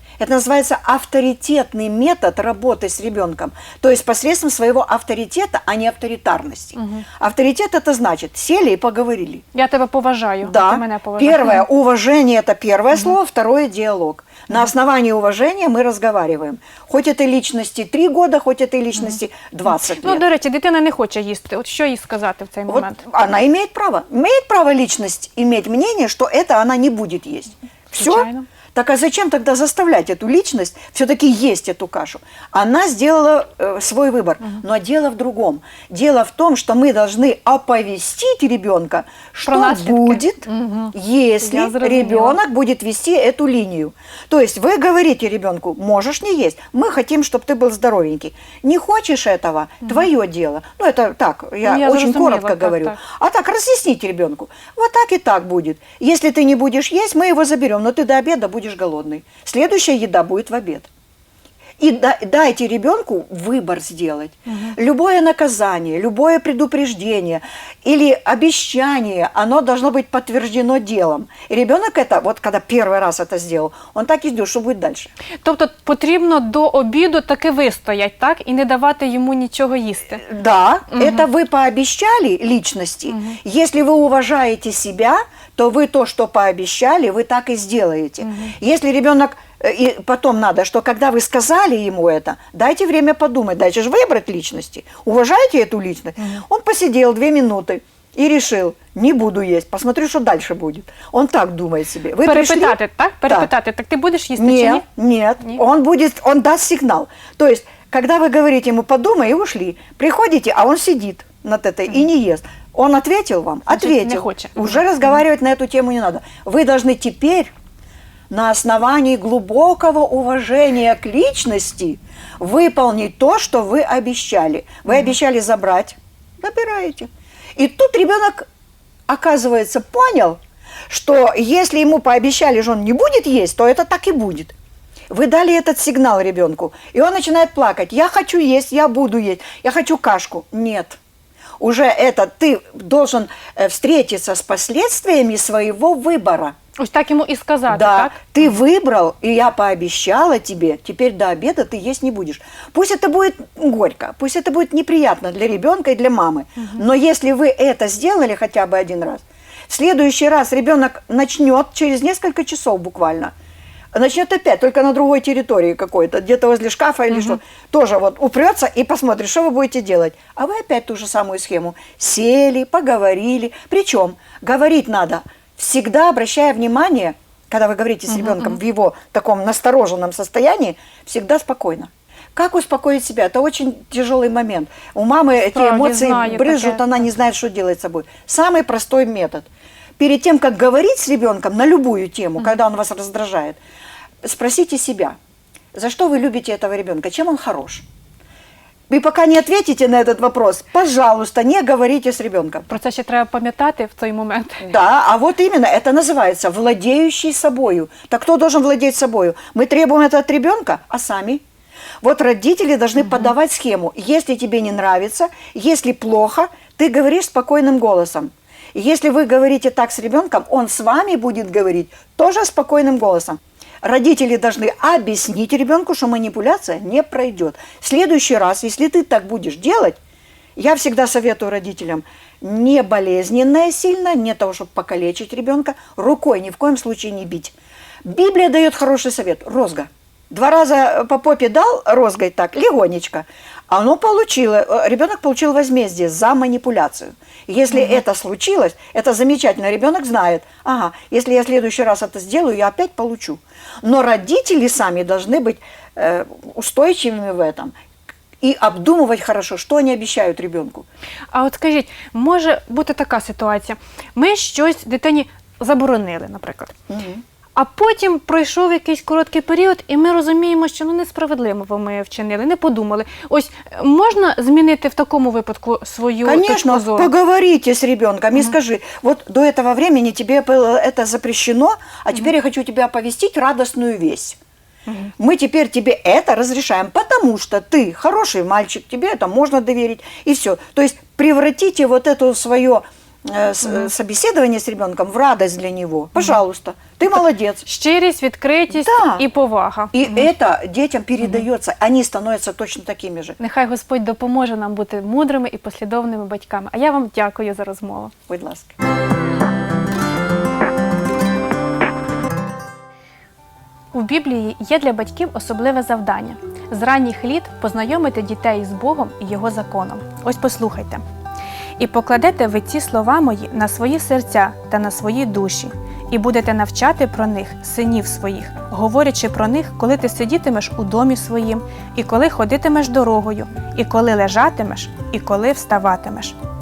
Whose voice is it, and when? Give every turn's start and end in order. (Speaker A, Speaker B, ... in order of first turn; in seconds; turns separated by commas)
Speaker A: 0.2-9.4, Speaker B: 6.7-7.0, Speaker B: 9.5-11.7, Speaker A: 10.4-20.2, Speaker B: 19.0-23.0, Speaker A: 22.7-60.9, Speaker B: 28.0-28.4, Speaker B: 39.5-42.4, Speaker B: 51.6-53.0, Speaker A: 61.8-75.1, Speaker B: 64.5-64.7, Speaker B: 75.4-80.2, Speaker A: 80.2-103.5, Speaker B: 80.9-81.2, Speaker B: 83.1-83.4, Speaker B: 88.2-88.5, Speaker B: 102.2-104.8, Speaker A: 104.4-117.5, Speaker B: 113.7-115.2, Speaker A: 118.3-128.5, Speaker B: 124.9-125.1, Speaker A: 129.1-130.4, Speaker A: 130.9-134.5, Speaker A: 135.1-141.0, Speaker A: 141.6-146.6, Speaker B: 146.8-148.4, Speaker A: 147.7-163.3, Speaker A: 163.9-189.5, Speaker B: 167.1-167.4, Speaker B: 178.1-178.6, Speaker B: 185.4-187.0, Speaker A: 190.0-193.6, Speaker A: 194.2-195.2, Speaker A: 195.7-197.8, Speaker A: 198.9-202.7, Speaker B: 202.7-204.7, Speaker A: 204.6-211.4, Speaker A: 212.0-230.0, Speaker B: 213.0-213.3, Speaker A: 230.6-257.7, Speaker B: 247.7-248.0, Speaker A: 258.4-260.9, Speaker B: 261.3-266.7, Speaker A: 266.9-267.2, Speaker B: 267.5-277.1, Speaker A: 276.2-284.4, Speaker A: 285.2-297.6, Speaker B: 297.1-300.3, Speaker A: 298.7-299.2, Speaker A: 299.9-303.4, Speaker B: 303.4-308.1, Speaker A: 308.3-308.7, Speaker B: 313.9-321.0, Speaker B: 321.8-336.4